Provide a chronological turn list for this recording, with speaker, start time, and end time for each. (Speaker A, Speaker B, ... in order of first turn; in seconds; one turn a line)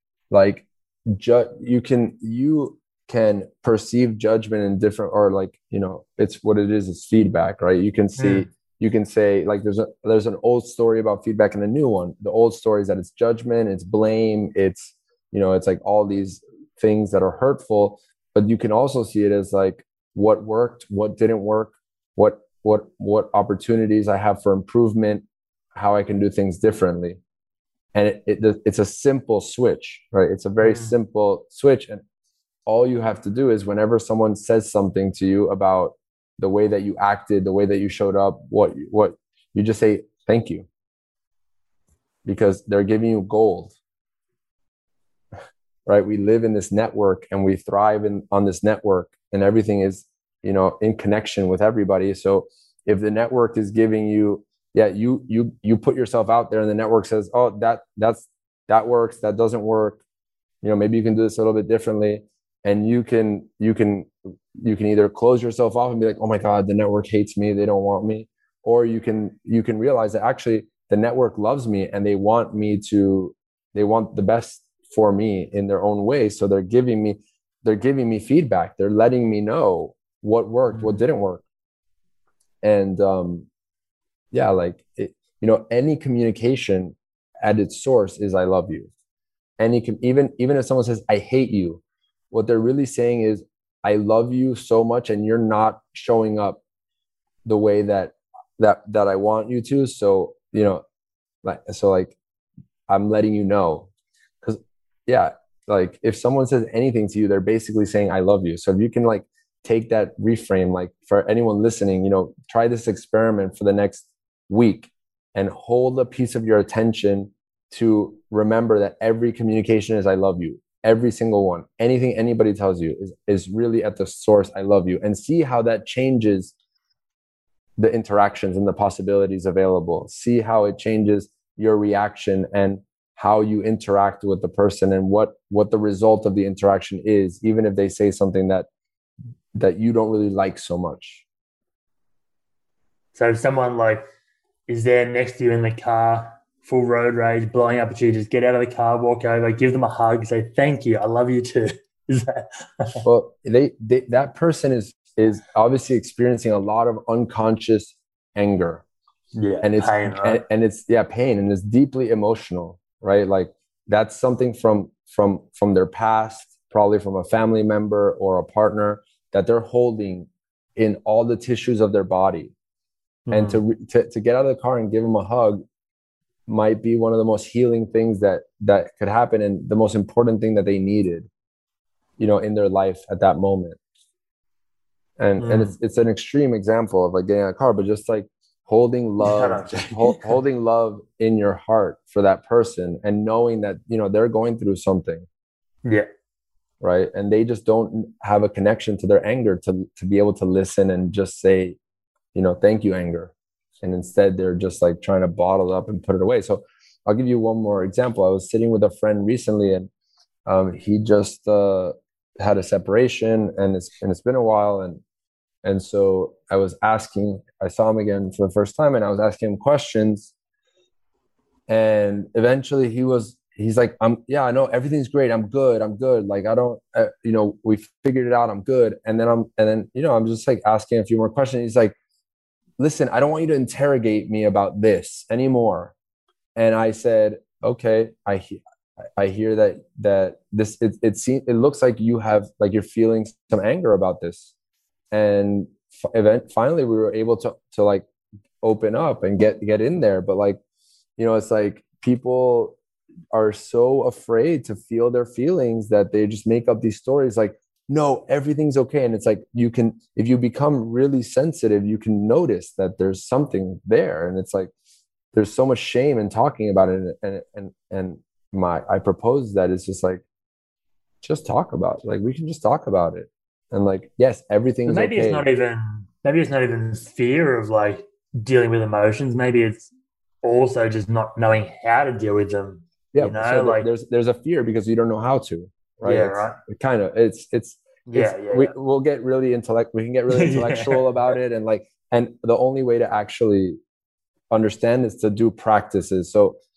Speaker A: 0.3-27.2
Speaker B: 8.2-8.5
Speaker A: 27.9-32.0
Speaker B: 30.6-30.9
Speaker A: 32.6-40.7
Speaker A: 42.2-43.7
Speaker A: 45.9-60.0
Speaker A: 60.6-81.4
Speaker B: 80.7-81.0
Speaker A: 82.6-83.5
Speaker A: 84.3-88.9
Speaker A: 89.6-96.6
Speaker A: 97.4-100.8
Speaker A: 101.4-102.2
Speaker A: 102.9-103.9
Speaker A: 104.4-126.5
Speaker A: 127.8-138.7
Speaker A: 139.5-141.2
Speaker B: 143.1-144.1
Speaker B: 144.7-153.0
Speaker A: 153.0-158.8
Speaker B: 159.3-160.4
Speaker A: 159.6-172.5
Speaker B: 173.3-173.6
Speaker A: 173.3-175.6
Speaker A: 176.5-181.3
Speaker A: 182.2-183.8
Speaker A: 185.2-195.2
Speaker B: 185.4-185.8
Speaker B: 189.2-190.3
Speaker A: 196.8-201.8
Speaker A: 202.3-209.9
Speaker A: 210.4-215.0
Speaker A: 215.6-220.3
Speaker A: 221.7-231.9
Speaker A: 232.8-235.9
Speaker A: 236.6-238.6
Speaker A: 239.2-244.5
Speaker A: 245.1-248.1
Speaker A: 248.6-250.6
Speaker A: 251.2-252.8
Speaker A: 253.3-264.7
Speaker A: 265.3-270.2
Speaker A: 271.2-275.4
Speaker B: 274.9-279.9
Speaker B: 280.4-283.9
Speaker A: 283.1-293.8
Speaker B: 286.0-286.6
Speaker B: 288.1-288.7
Speaker B: 290.3-291.1
Speaker A: 294.5-296.6